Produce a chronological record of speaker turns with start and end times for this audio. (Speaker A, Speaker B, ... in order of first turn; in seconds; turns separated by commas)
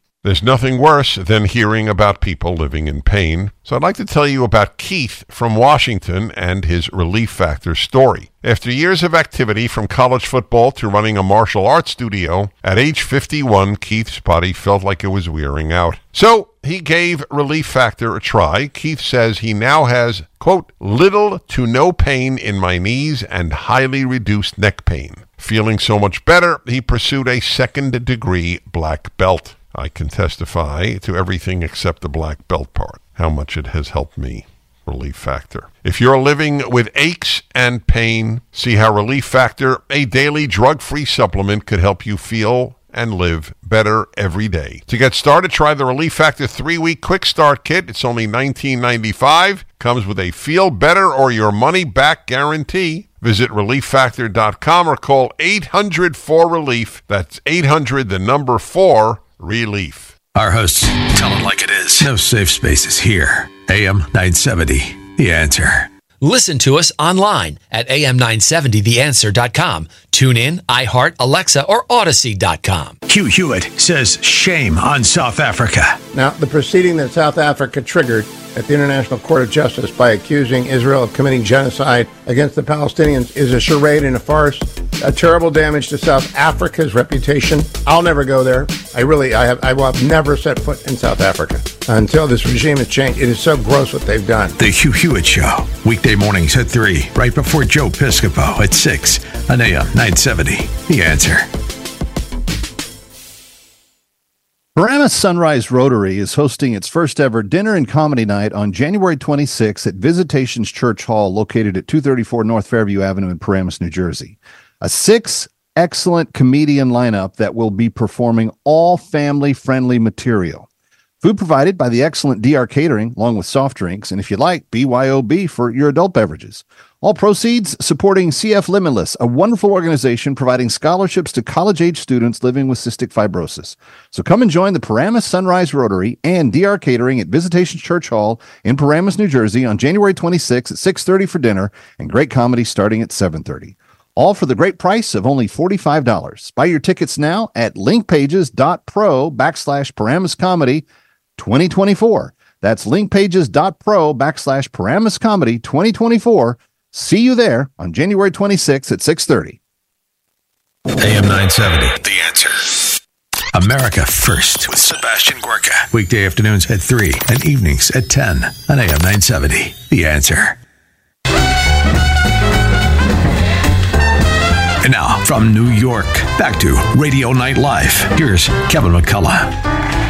Speaker A: 0.2-60.2, Speaker B: 60.3-65.9, Speaker C: 66.2-73.0, Speaker B: 73.0-76.0, Speaker D: 76.1-94.5, Speaker B: 94.6-101.5, Speaker E: 104.8-120.7, Speaker E: 121.2-150.8, Speaker E: 151.4-159.6, Speaker B: 161.0-162.9, Speaker B: 163.5-170.6, Speaker B: 174.8-179.6